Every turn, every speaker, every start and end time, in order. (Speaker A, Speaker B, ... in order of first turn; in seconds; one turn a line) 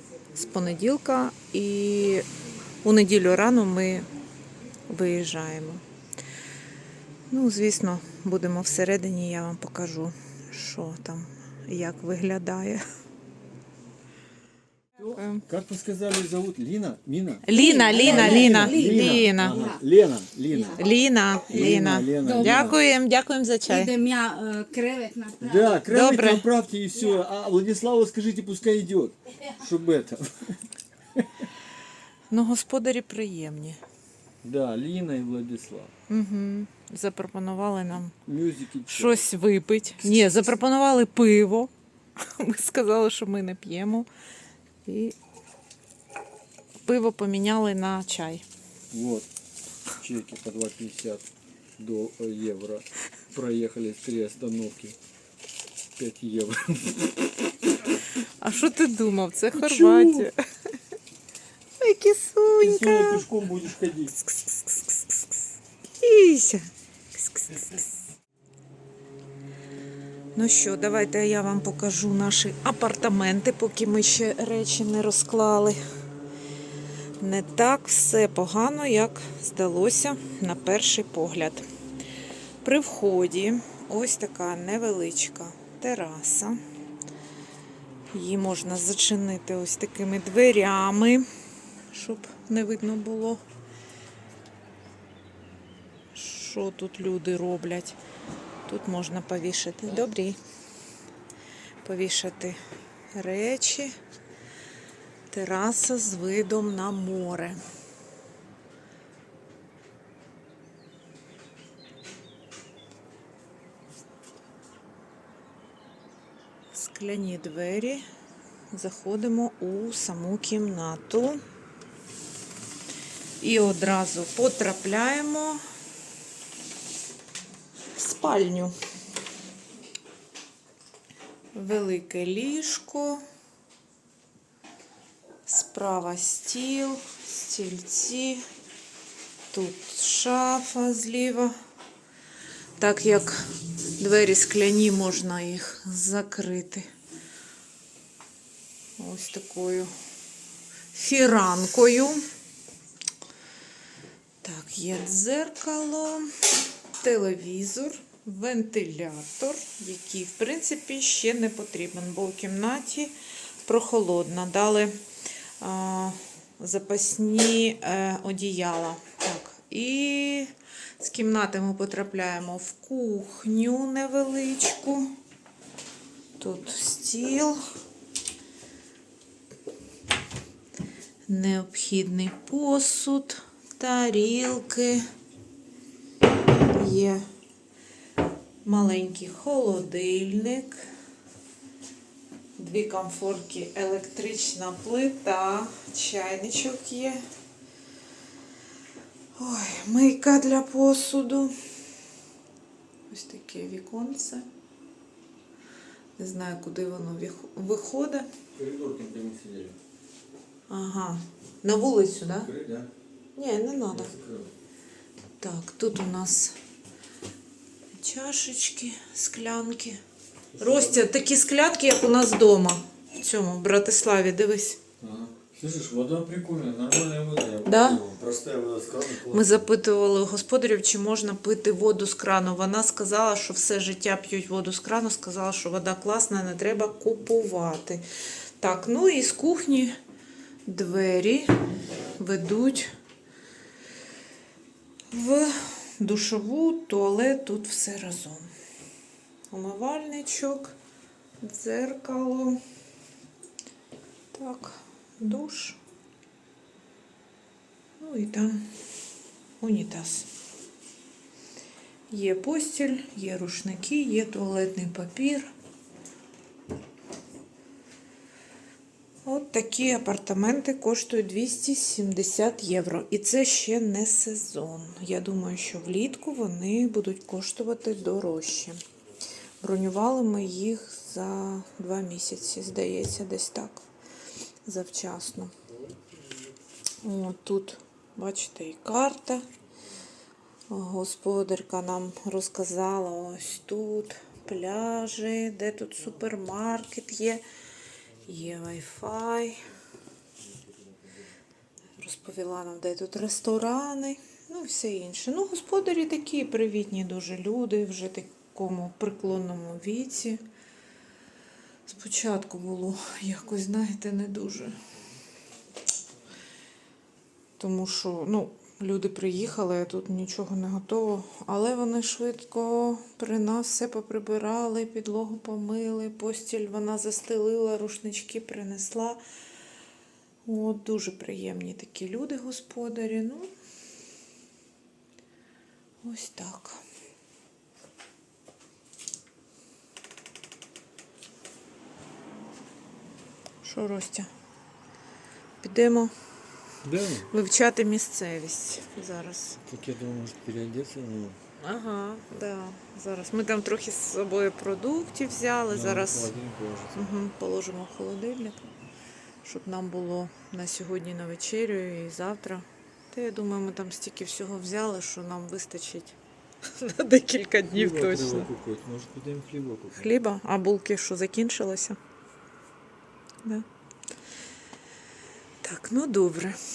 Speaker A: 0.3-2.3
Speaker A: 2.8-4.1
Speaker A: 4.9-5.8
Speaker A: 7.3-12.8
Speaker A: 15.0-15.4
Speaker B: 15.5-20.8
Speaker A: 17.4-19.7
Speaker C: 17.5-19.8
Speaker A: 20.8-23.9
Speaker B: 21.5-22.8
Speaker C: 22.2-22.7
Speaker C: 23.7-25.8
Speaker B: 25.4-30.6
Speaker A: 25.9-26.5
Speaker A: 32.3-33.8
Speaker B: 34.4-35.9
Speaker A: 36.1-38.2
Speaker B: 38.3-39.3
Speaker A: 38.9-44.1
Speaker A: 44.9-45.2
Speaker A: 46.9-48.5
Speaker B: 48.9-49.3
Speaker B: 50.0-51.2
Speaker B: 51.8-55.0
Speaker B: 56.0-57.1
Speaker A: 58.2-60.4
Speaker B: 59.5-60.3
Speaker A: 61.8-63.3
Speaker B: 62.6-64.1
Speaker A: 64.1-65.5
Speaker A: 66.0-67.9
Speaker A: 70.3-75.8
Speaker A: 77.2-81.6
Speaker A: 82.6-86.6
Speaker A: 88.1-91.2
Speaker A: 91.9-93.4
Speaker A: 96.1-98.0
Speaker A: 98.7-100.4
Speaker A: 101.8-102.6
Speaker A: 103.1-104.0
Speaker A: 105.3-107.6
Speaker A: 116.7-118.0
Speaker A: 118.7-121.4
Speaker A: 123.4-125.6
Speaker A: 128.0-128.7
Speaker A: 131.5-133.2
Speaker A: 135.5-138.4
Speaker A: 139.5-141.5
Speaker A: 142.8-143.5
Speaker A: 144.0-146.9
Speaker A: 149.0-149.9
Speaker A: 150.9-152.2
Speaker A: 154.4-156.3
Speaker A: 157.0-163.1
Speaker A: 163.7-165.0
Speaker A: 165.6-175.1
Speaker A: 176.4-177.6
Speaker A: 181.3-185.1
Speaker A: 186.6-187.2
Speaker A: 188.6-190.8
Speaker A: 192.6-197.2
Speaker A: 199.4-201.5
Speaker A: 203.1-204.5
Speaker A: 206.2-208.3
Speaker B: 208.6-209.8
Speaker A: 210.7-212.5
Speaker B: 212.4-212.9
Speaker A: 213.3-214.1
Speaker B: 213.9-214.5
Speaker A: 215.4-216.6
Speaker A: 218.0-220.0
Speaker B: 220.5-221.1
Speaker A: 220.6-224.8
Speaker B: 225.0-229.7
Speaker A: 227.7-228.0
Speaker A: 229.3-238.0
Speaker A: 238.6-239.9
Speaker A: 240.7-241.5
Speaker A: 242.2-242.9
Speaker A: 245.1-248.5
Speaker A: 249.5-250.8
Speaker A: 251.4-252.6
Speaker A: 254.3-255.8
Speaker A: 258.0-258.7
Speaker A: 259.6-260.3
Speaker A: 262.1-265.5
Speaker A: 269.2-278.8
Speaker A: 279.6-283.9
Speaker A: 284.7-285.5
Speaker A: 287.0-289.5
Speaker A: 290.7-297.4
Speaker A: 298.2-299.6
Speaker B: 300.5-301.1
Speaker A: 302.0-310.4
Speaker A: 311.9-314.8
Speaker A: 317.6-329.2
Speaker A: 330.4-333.5
Speaker A: 336.0-336.8
Speaker A: 343.6-344.3
Speaker A: 345.6-346.1
Speaker B: 346.8-347.3
Speaker A: 347.3-349.6
Speaker B: 349.7-351.4
Speaker A: 351.6-356.3
Speaker B: 355.7-357.2
Speaker A: 356.9-358.7
Speaker A: 359.4-366.2
Speaker A: 366.7-368.5
Speaker B: 367.7-370.1
Speaker A: 370.0-372.0
Speaker A: 375.6-376.6